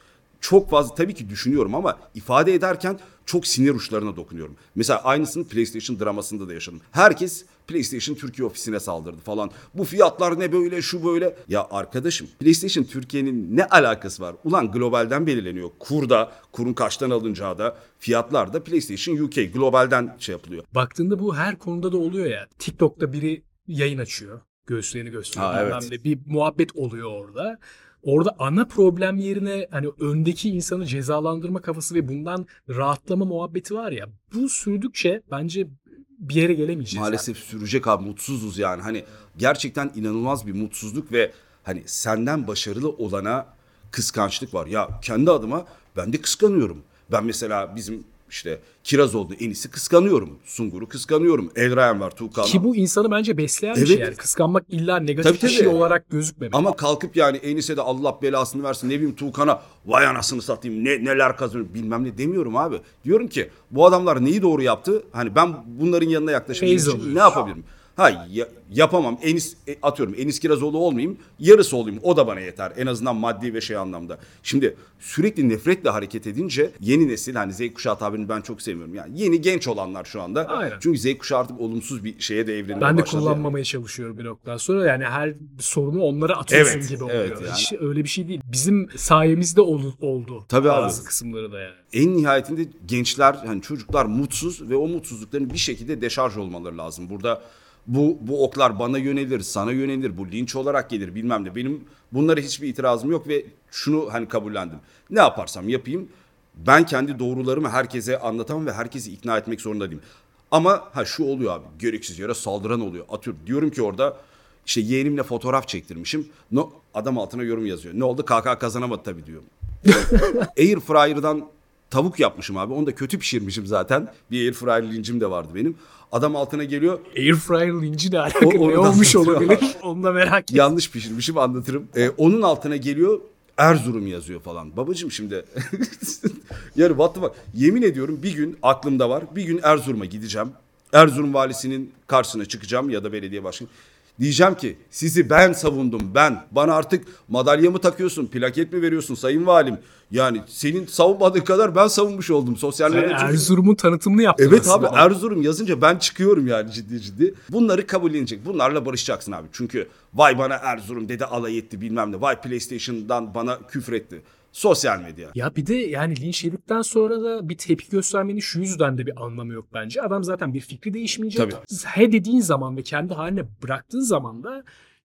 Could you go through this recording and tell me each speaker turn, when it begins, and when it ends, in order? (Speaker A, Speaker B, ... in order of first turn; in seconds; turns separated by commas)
Speaker A: 0.4-20.6, Speaker B: 20.7-37.3, Speaker A: 25.4-25.9, Speaker A: 36.9-52.6, Speaker B: 52.4-56.7, Speaker A: 53.7-54.1, Speaker A: 55.2-55.8, Speaker A: 56.5-83.5, Speaker B: 66.6-67.5, Speaker B: 80.5-80.8, Speaker B: 82.8-91.8, Speaker A: 86.5-87.7, Speaker A: 90.5-91.0, Speaker A: 91.9-127.1, Speaker B: 119.9-120.5, Speaker B: 127.1-130.7, Speaker A: 128.4-129.7, Speaker A: 130.5-153.5, Speaker B: 152.9-155.1, Speaker A: 154.4-165.3, Speaker B: 165.3-174.6